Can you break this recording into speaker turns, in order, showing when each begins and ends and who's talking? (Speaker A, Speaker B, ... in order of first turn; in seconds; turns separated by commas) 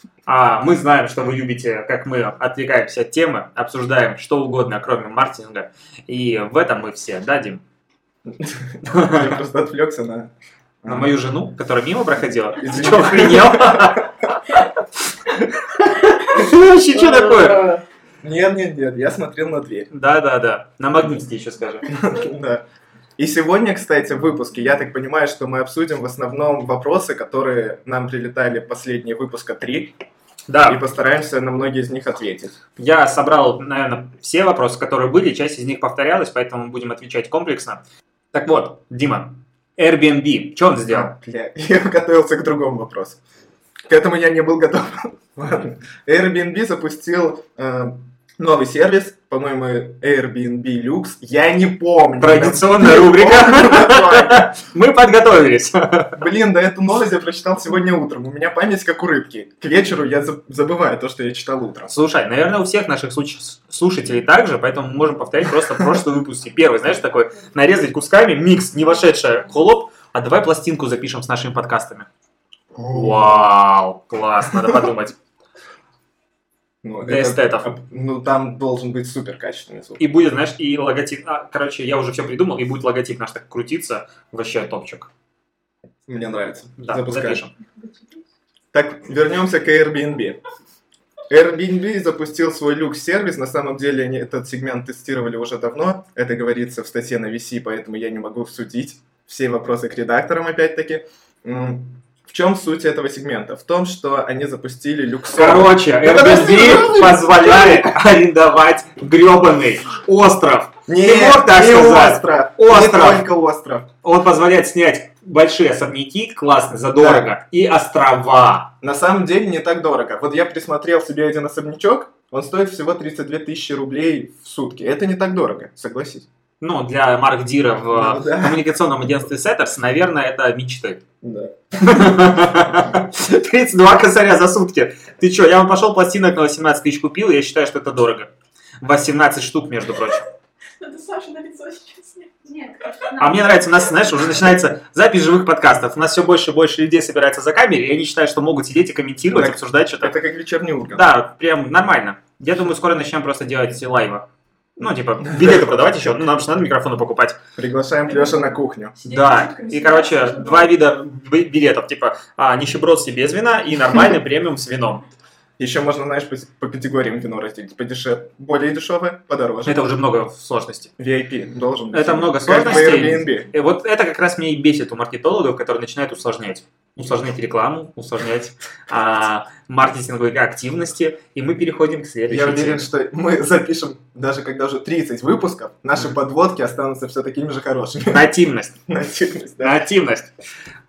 Speaker A: 0.2-7.6, Speaker B: 8.3-10.3, Speaker A: 8.8-9.3, Speaker B: 10.8-11.1, Speaker A: 10.8-14.6, Speaker B: 12.6-14.3, Speaker B: 15.7-19.9, Speaker A: 15.8-17.7, Speaker A: 19.9-21.9, Speaker B: 21.9-22.6, Speaker B: 23.2-29.9, Speaker A: 30.5-30.8, Speaker B: 30.6-32.5, Speaker A: 32.8-37.8, Speaker A: 38.3-41.1, Speaker B: 40.9-43.2, Speaker B: 43.9-54.5, Speaker A: 52.2-56.1, Speaker B: 56.1-61.9, Speaker A: 61.9-72.1, Speaker B: 72.7-73.5, Speaker A: 72.9-75.2, Speaker B: 76.8-80.0, Speaker A: 77.0-77.7, Speaker A: 80.0-85.1, Speaker B: 86.1-87.4, Speaker A: 86.8-87.5, Speaker B: 88.7-90.4, Speaker B: 91.3-108.0, Speaker A: 105.3-113.3, Speaker B: 110.9-113.9, Speaker A: 114.0-118.7, Speaker B: 116.9-117.3, Speaker B: 118.8-126.3, Speaker A: 126.6-131.0, Speaker B: 127.9-128.6, Speaker B: 131.2-132.1, Speaker A: 131.8-138.3, Speaker A: 138.8-140.3, Speaker C: 140.8-143.3, Speaker A: 143.2-150.1, Speaker B: 149.3-151.1, Speaker A: 150.9-157.4, Speaker B: 155.2-156.3, Speaker B: 157.6-158.9, Speaker C: 159.0-160.7, Speaker A: 159.0-165.0, Speaker B: 165.6-169.8, Speaker A: 169.6-170.9, Speaker B: 171.0-173.5, Speaker A: 171.9-182.9, Speaker B: 182.3-188.3, Speaker A: 188.1-188.8, Speaker B: 188.9-189.8, Speaker A: 189.6-190.3